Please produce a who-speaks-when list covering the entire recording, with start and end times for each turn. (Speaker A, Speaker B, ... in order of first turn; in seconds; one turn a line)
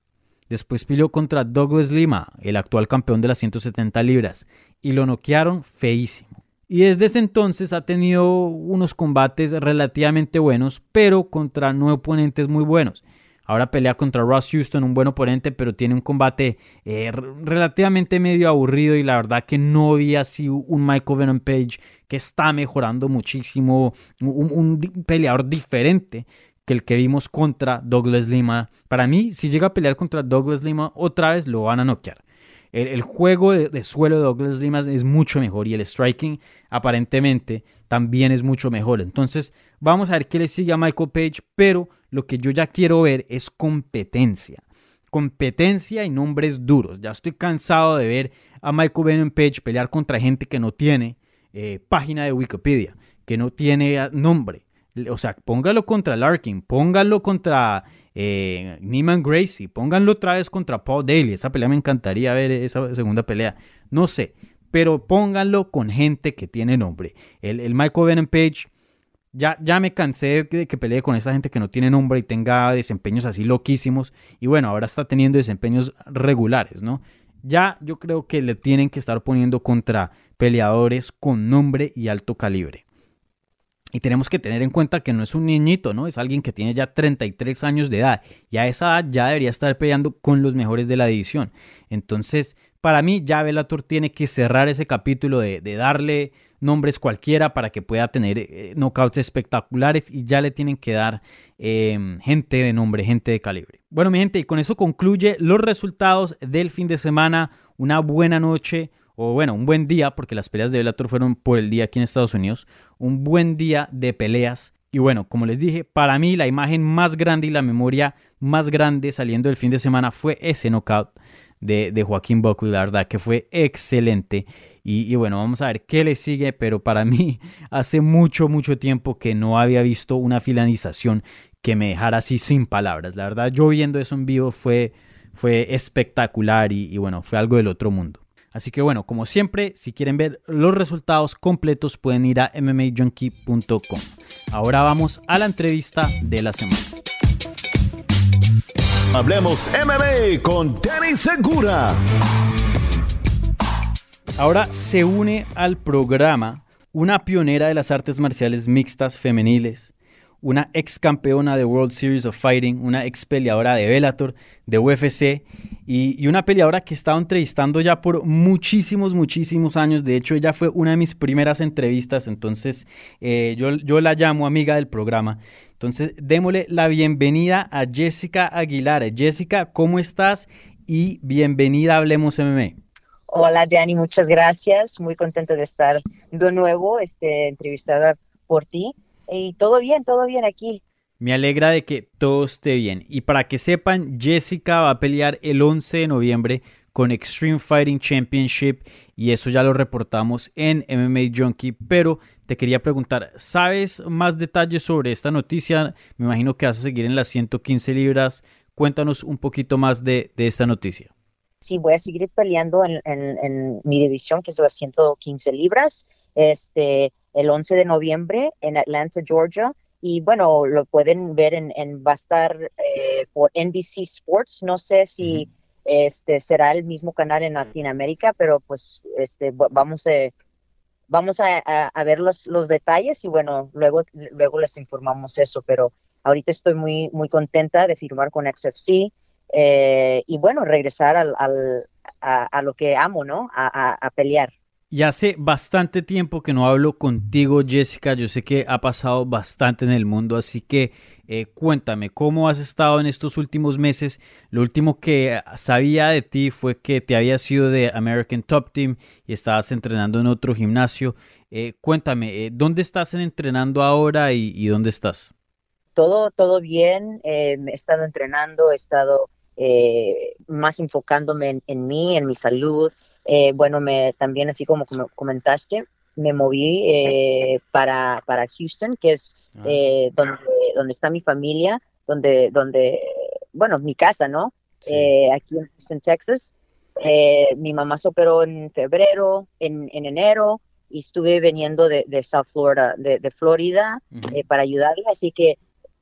Speaker A: 0.5-32.2
Speaker A: 32.7-68.7
Speaker A: 69.3-82.8
Speaker A: 83.9-146.9
Speaker B: 149.1-152.0
Speaker A: 154.4-182.8
Speaker C: 183.3-190.8
Speaker A: 191.2-211.1
Speaker C: 211.6-230.3
Speaker A: 225.2-225.4
Speaker C: 231.1-244.5
Speaker A: 244.9-265.3
Speaker C: 265.9-295.6
Speaker A: 284.8-285.1